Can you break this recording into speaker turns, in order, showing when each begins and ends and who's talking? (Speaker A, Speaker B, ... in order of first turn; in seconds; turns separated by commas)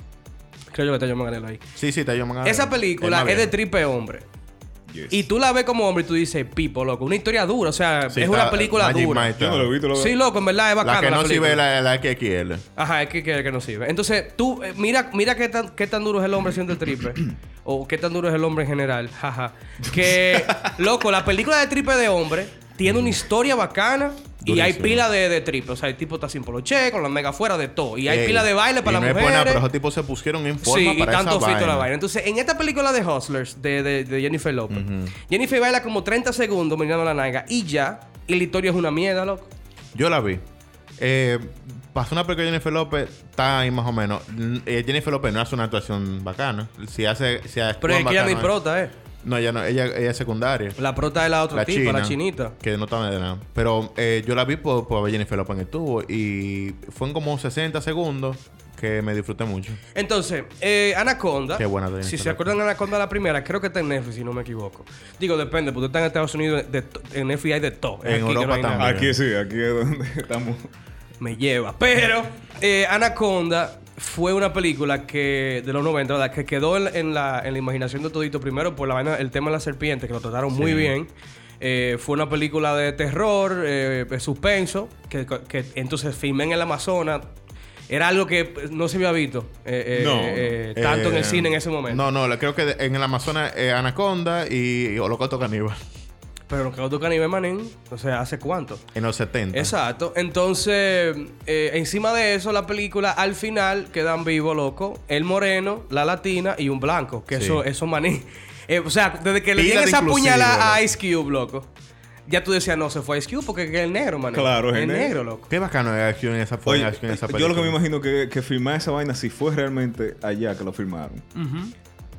Speaker A: 0.7-1.6, Speaker B: 1.8-3.5, Speaker A: 2.4-4.2, Speaker C: 4.9-5.2, Speaker A: 5.1-9.3, Speaker B: 8.1-9.7, Speaker C: 9.4-10.2, Speaker A: 9.9-11.6, Speaker B: 10.8-12.6, Speaker A: 12.8-29.6, Speaker C: 20.1-20.7, Speaker B: 22.8-23.2, Speaker B: 24.4-25.0, Speaker B: 28.1-31.9, Speaker A: 30.6-39.5, Speaker B: 34.7-35.1, Speaker B: 39.9-40.4, Speaker B: 41.0-48.5, Speaker A: 47.8-48.9, Speaker B: 49.2-50.8, Speaker A: 50.8-52.5, Speaker B: 51.5-59.8, Speaker A: 59.9-68.9, Speaker B: 61.5-62.5, Speaker B: 68.0-69.2, Speaker C: 68.8-70.7, Speaker A: 71.2-87.3, Speaker B: 80.5-80.9, Speaker A: 87.9-92.0, Speaker C: 89.9-90.6, Speaker B: 90.8-95.8, Speaker A: 96.5-98.8, Speaker B: 98.9-99.7, Speaker A: 99.5-111.7, Speaker B: 107.3-107.6, Speaker B: 109.5-110.8, Speaker A: 112.3-115.5, Speaker C: 114.3-115.2, Speaker B: 115.5-117.8, Speaker C: 116.7-121.3, Speaker A: 121.3-121.7